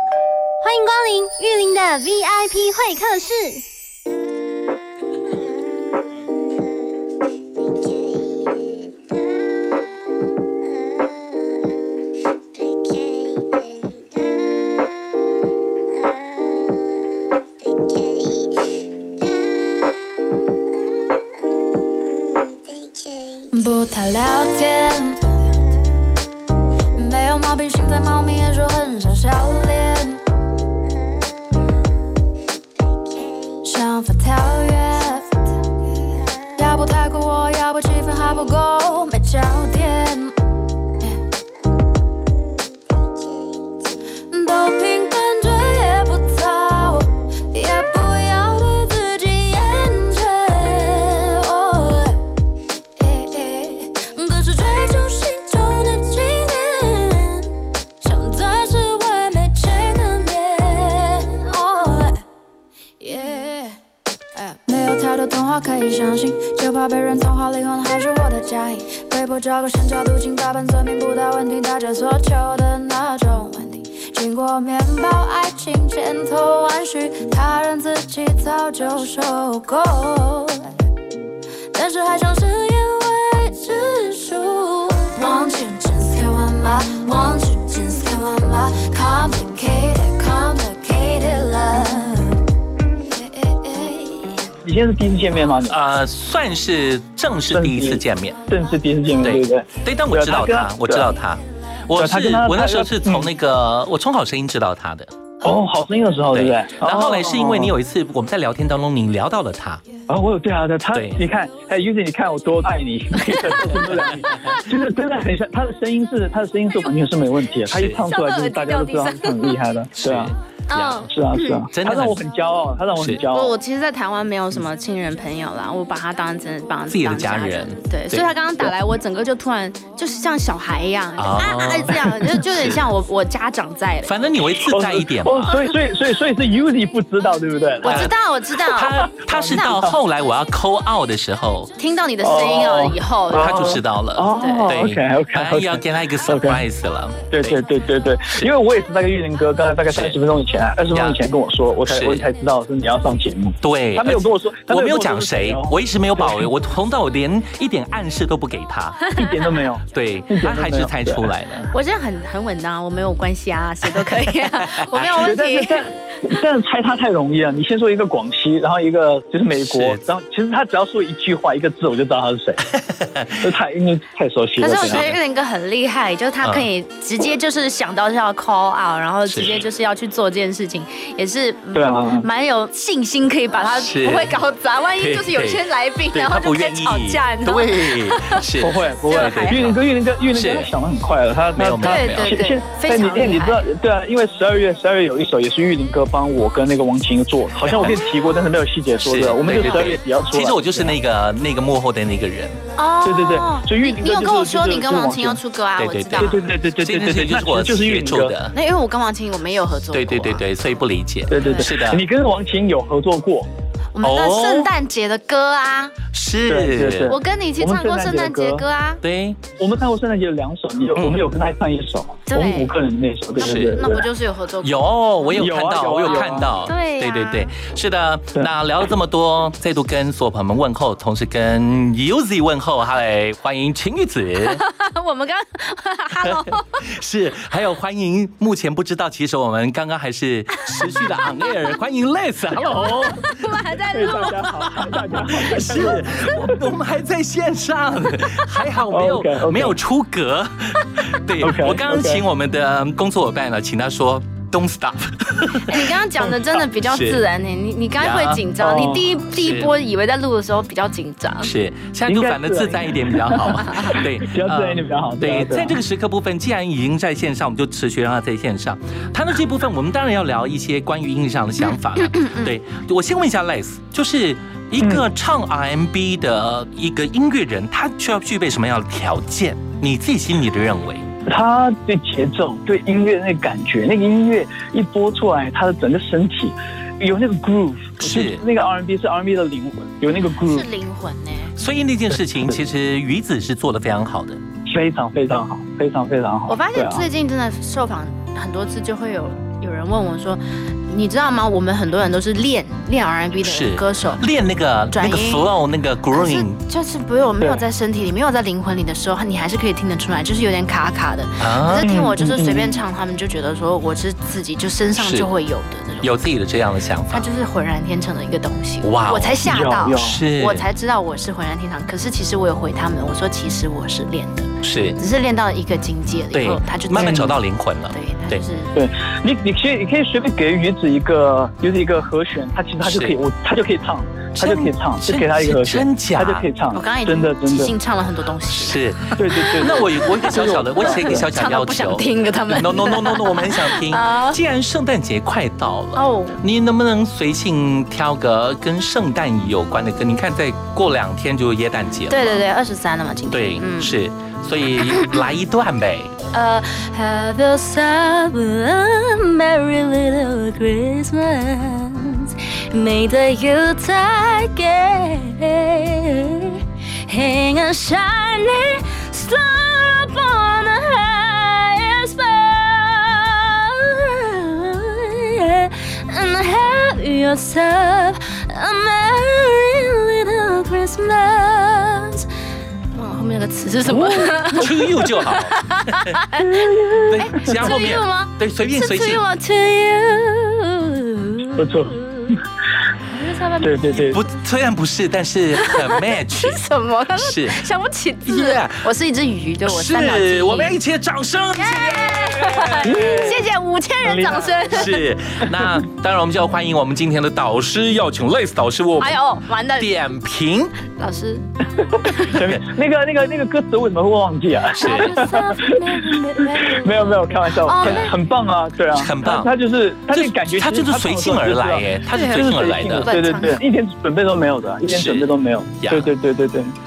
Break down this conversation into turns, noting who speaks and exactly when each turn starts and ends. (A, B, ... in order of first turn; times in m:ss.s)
0:00.6-0:03.6 A
0:23.5-0:25.4 B
0:26.9-0:30.2 B
0:33.6-0:35.4 B
0:36.6-0:40.3 B
0:44.3-0:52.2 B
0:53.0-1:02.2 B
1:03.0-1:03.8 B
1:04.3-1:20.6 B
1:21.7-1:32.4 B
1:33.1-1:34.4 B
1:34.6-1:35.8 C
1:35.7-1:38.4 D
1:37.5-1:41.1 C
1:39.2-1:45.1 D
1:42.0-1:43.3 C
1:45.4-1:47.7 C
1:46.3-1:49.8 D
1:50.1-2:00.3 C
1:50.9-1:51.2 D
1:57.7-1:58.0 D
1:58.1-1:59.6 B
2:00.0-2:01.1 D
2:00.7-2:01.6 E
2:01.1-2:03.5 C
2:01.7-2:02.2 D
2:02.9-2:03.2 D
2:03.3-2:14.1 E
2:06.9-2:08.3 D
2:11.2-2:12.8 D
2:14.0-2:15.6 D
2:14.5-2:18.1 C
2:17.8-2:19.0 E
2:17.8-2:18.1 D
2:18.7-2:21.7 D
2:19.1-2:19.9 C
2:21.8-2:23.7 E
2:22.2-2:26.6 C
2:23.3-2:27.6 D
2:24.4-2:24.7 E
2:27.3-2:36.5 C
2:29.9-2:30.2 D
2:30.9-2:31.2 D
2:31.8-2:32.2 D
2:33.6-2:39.0 D
2:39.2-2:41.3 C
2:39.9-2:41.7 D
2:41.7-2:45.9 E
2:44.6-2:45.1 D
2:45.1-2:52.6 C
2:49.6-2:50.0 D
2:52.7-2:53.5 D
2:53.4-2:55.1 C
2:54.6-3:07.8 E
2:54.7-2:55.2 D
2:59.3-2:59.6 D
3:01.7-3:02.2 C
3:03.7-3:04.4 D
3:05.0-3:10.7 D
3:08.6-3:21.0 C
3:09.1-3:09.7 E
3:11.6-3:12.4 D
3:11.8-3:13.7 E
3:17.6-3:18.0 D
3:19.0-3:22.6 D
3:19.4-3:19.9 E
3:22.8-3:26.4 E
3:23.0-3:25.4 C
3:25.8-3:28.5 D
3:26.2-3:28.3 C
3:28.5-3:30.4 E
3:29.9-3:32.0 D
3:31.3-3:33.5 C
3:31.4-3:31.7 E
3:33.9-3:35.9 E
3:34.0-3:34.7 D
3:36.1-3:37.1 D
3:36.5-3:38.6 C
3:37.1-3:39.0 E
3:39.0-3:39.4 D
3:39.6-3:44.0 C
3:40.9-3:41.2 D
3:42.3-3:42.7 E
3:43.4-3:43.8 D
3:43.4-3:45.5 E
3:44.6-3:54.6 D
3:45.4-3:46.5 C
3:46.0-3:47.5 E
3:54.6-3:56.7 E
3:56.2-4:03.3 D
4:03.4-4:04.3 E
4:03.9-4:06.4 C
4:04.8-4:17.2 D
4:08.9-4:09.8 C
4:11.4-4:12.2 C
4:15.7-4:21.5 E
4:18.0-4:18.4 D
4:18.6-4:19.1 C
4:19.4-4:19.7 D
4:21.4-4:41.1 D
4:22.1-4:25.8 C
4:23.6-4:24.0 E
4:31.7-4:32.5 E
4:34.8-4:35.0 C
4:41.2-4:50.6 C
4:48.0-4:48.4 D
4:50.4-4:51.5 E
4:51.6-4:54.4 D
4:54.7-4:57.0 C
4:56.5-5:04.2 E
5:03.4-5:06.6 D
5:04.9-5:05.5 E
5:06.1-5:16.2 E
5:11.4-5:11.9 D
5:11.8-5:12.8 C
5:15.0-5:15.3 D
5:16.0-5:17.3 D
5:17.1-5:27.4 E
5:18.8-5:20.6 D
5:19.4-5:20.2 C
5:24.6-5:25.0 D
5:26.3-5:28.4 D
5:26.9-5:27.2 C
5:27.9-5:28.7 E
5:28.7-5:37.7 C
5:32.8-5:33.2 D
5:34.3-5:36.5 D
5:36.7-5:38.8 E
5:38.5-5:52.4 D
5:39.2-5:41.3 C
5:39.7-5:44.4 E
5:45.9-5:46.4 E
5:52.1-5:53.9 E
5:53.3-5:56.1 D
5:54.9-5:55.2 E
5:56.3-6:22.2 B
6:22.9-6:25.3 E
6:24.6-6:26.2 D
6:26.0-6:26.4 E
6:26.4-6:27.2 C
6:27.1-6:29.2 D
6:27.2-6:29.6 E
6:29.6-6:30.9 B
6:31.5-6:32.4 C
6:33.2-6:33.7 E
6:33.6-6:34.2 C
6:33.9-6:36.6 D
6:36.3-6:40.8 E
6:37.2-6:37.6 D
6:38.2-6:38.9 D
6:39.6-6:43.3 D
6:41.6-6:45.0 E
6:42.8-6:43.4 C
6:44.0-6:44.5 C
6:44.7-6:49.2 D
6:49.0-6:49.9 E
6:49.8-6:50.7 D
6:51.0-6:51.4 E
6:51.8-7:06.7 C
6:54.8-6:55.1 D
6:55.0-6:57.3 B
6:57.6-6:58.1 E
6:57.8-6:58.1 D
6:58.9-6:59.5 D
7:00.1-7:03.1 D
7:02.1-7:03.6 E
7:04.9-7:06.1 D